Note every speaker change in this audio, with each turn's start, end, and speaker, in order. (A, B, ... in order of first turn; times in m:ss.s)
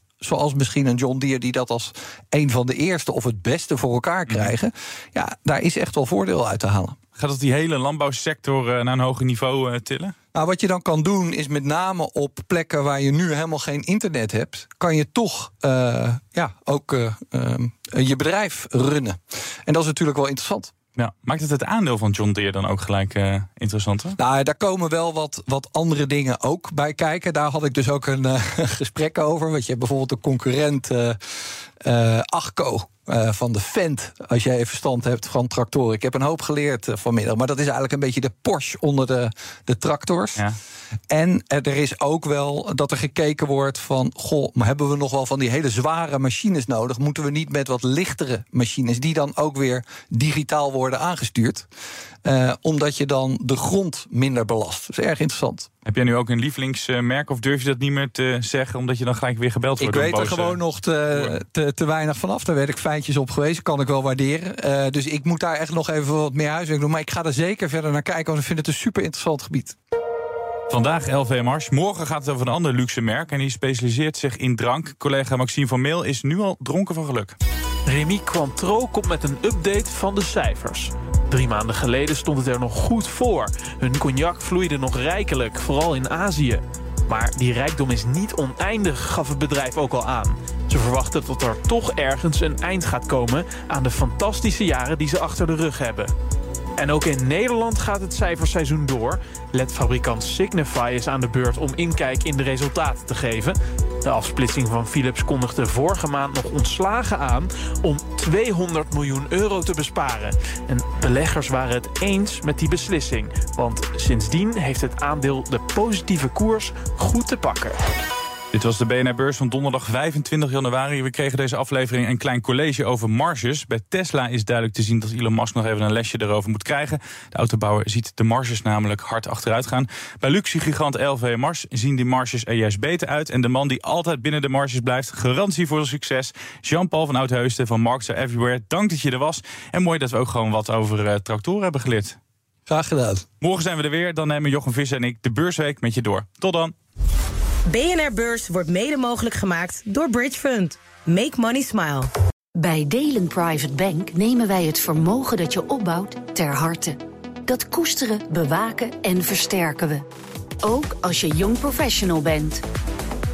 0:00.2-0:07.0 A
0:07.2-0:10.1 B
0:10.3-0:20.7 A
0:21.0-0:24.2 B
0:24.2-0:40.4 A
0:41.1-0:51.7 A
0:52.2-0:55.7 A
0:55.8-1:00.6 B
0:59.8-1:09.8 A
1:10.7-1:17.4 B
1:17.9-1:36.1 C
1:36.8-1:57.8 C
1:58.5-2:22.2 B
2:22.6-2:23.3 A
2:23.4-2:26.7 B
2:27.7-2:32.1 D
2:32.6-2:40.0 E
2:40.6-2:42.6 E